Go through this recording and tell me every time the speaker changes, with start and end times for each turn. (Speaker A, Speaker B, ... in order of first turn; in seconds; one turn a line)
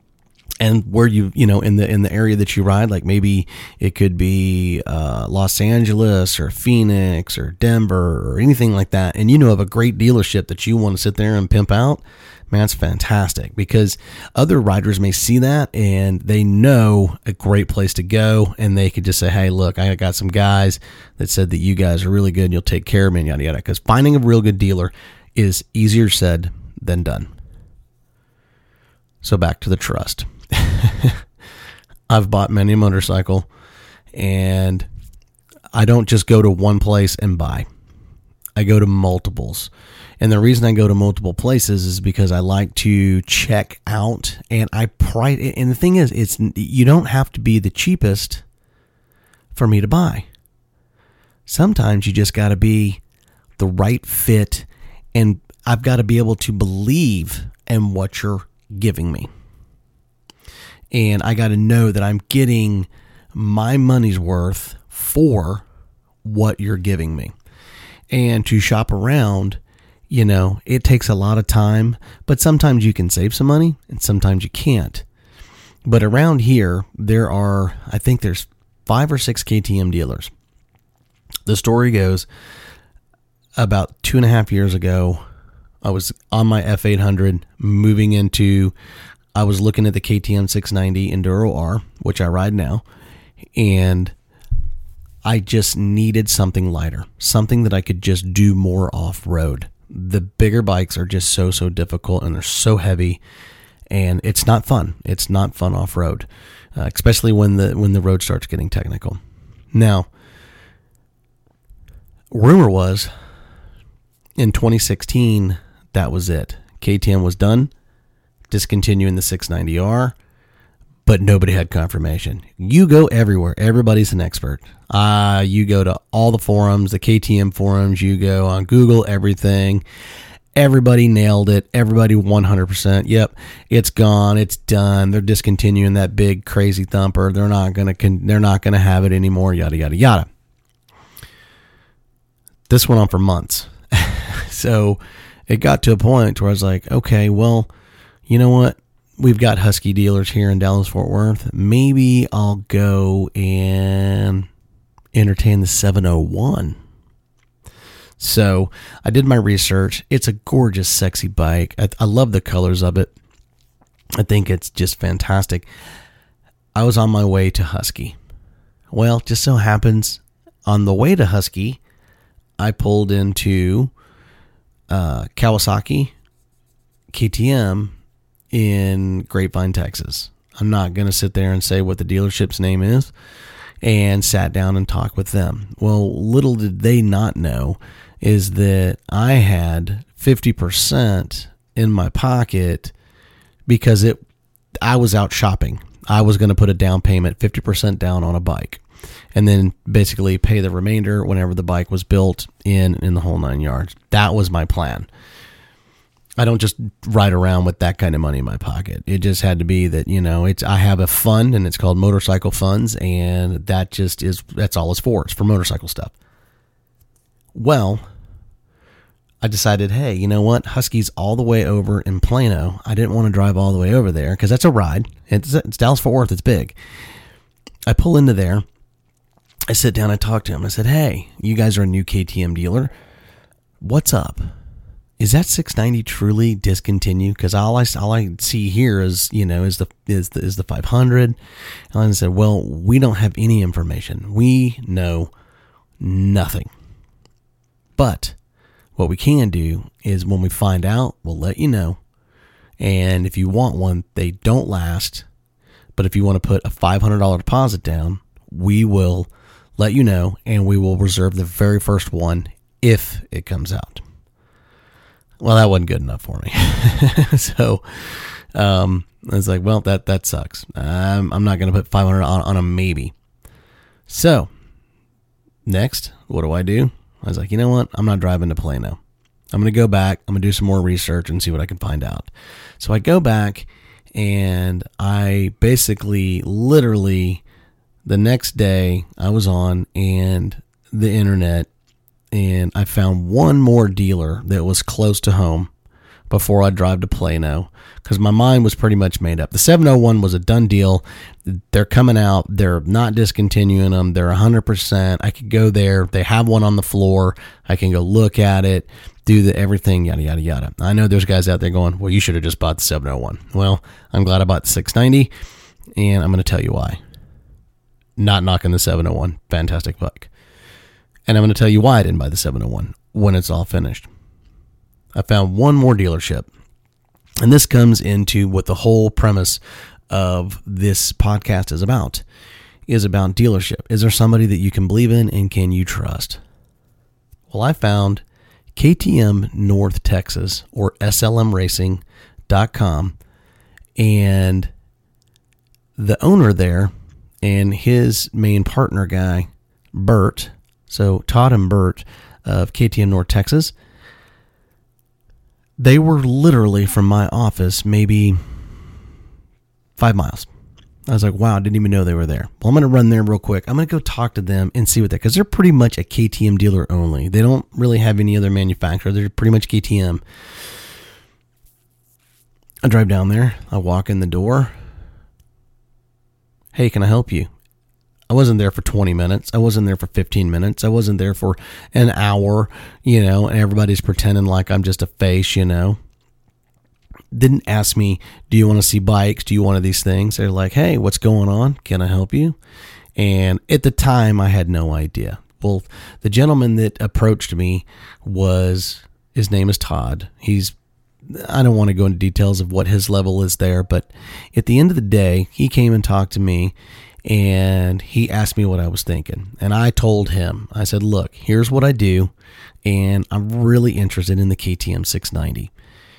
Speaker A: 0.6-27.3
Speaker A: 29.2-31.2
Speaker A: 32.1-33.5
Speaker A: 34.1-34.9
Speaker A: 35.7-37.6
Speaker A: 38.5-48.4
Speaker A: 49.5-50.2
Speaker A: 51.5-53.0
Speaker A: 53.6-59.3
Speaker A: 60.9-65.6
Speaker A: 66.2-67.3
Speaker A: 68.1-69.6
Speaker A: 70.1-75.0
Speaker A: 75.8-80.3
Speaker A: 81.5-82.2
Speaker A: 83.6-85.2
Speaker A: 85.8-88.7
Speaker A: 89.3-92.8
Speaker A: 93.5-94.1
Speaker A: 95.2-103.2
Speaker A: 103.9-109.2
Speaker A: 109.7-110.1
Speaker A: 112.3-113.1
Speaker A: 114.4-117.7
Speaker A: 118.5-120.2
Speaker A: 121.0-129.8
Speaker A: 130.6-140.3
Speaker A: 142.7-147.7
Speaker A: 148.3-154.5
Speaker A: 155.1-156.8
Speaker A: 158.2-163.1
Speaker A: 164.2-165.7
Speaker A: 166.7-168.2
Speaker A: 168.9-171.8
Speaker A: 172.6-173.9
Speaker A: 174.9-176.1
Speaker A: 177.1-177.9
Speaker A: 178.5-183.1
Speaker A: 183.8-192.9
Speaker A: 193.7-194.2
Speaker A: 194.8-198.8
Speaker A: 199.3-205.1
Speaker A: 206.4-216.1
Speaker A: 217.5-218.0
Speaker A: 219.4-226.8
Speaker A: 227.9-228.6
Speaker A: 229.7-232.9
Speaker A: 233.8-234.5
Speaker A: 235.2-241.3
Speaker A: 241.9-245.3
Speaker A: 246.0-246.7
Speaker A: 248.0-248.3
Speaker A: 248.9-252.0
Speaker A: 252.8-255.2
Speaker A: 255.9-264.0
Speaker A: 265.4-273.1
Speaker A: 274.1-274.5
Speaker A: 275.6-279.0
Speaker A: 279.5-287.4
Speaker A: 288.0-291.7
Speaker A: 292.3-295.7
Speaker A: 296.3-315.3
Speaker A: 315.9-317.0
Speaker A: 318.2-320.3
Speaker A: 321.3-324.1
Speaker A: 325.1-326.5
Speaker A: 327.4-332.2
Speaker A: 332.9-336.4
Speaker A: 337.5-338.2
Speaker A: 338.7-343.1
Speaker A: 344.0-344.7
Speaker A: 346.0-353.7
Speaker A: 355.8-358.4
Speaker A: 360.0-360.5
Speaker A: 361.1-370.2
Speaker A: 372.8-374.7
Speaker A: 376.7-377.5
Speaker A: 378.3-386.0
Speaker A: 387.3-392.6
Speaker A: 393.1-400.7
Speaker A: 401.3-406.7
Speaker A: 407.2-412.3
Speaker A: 412.8-415.7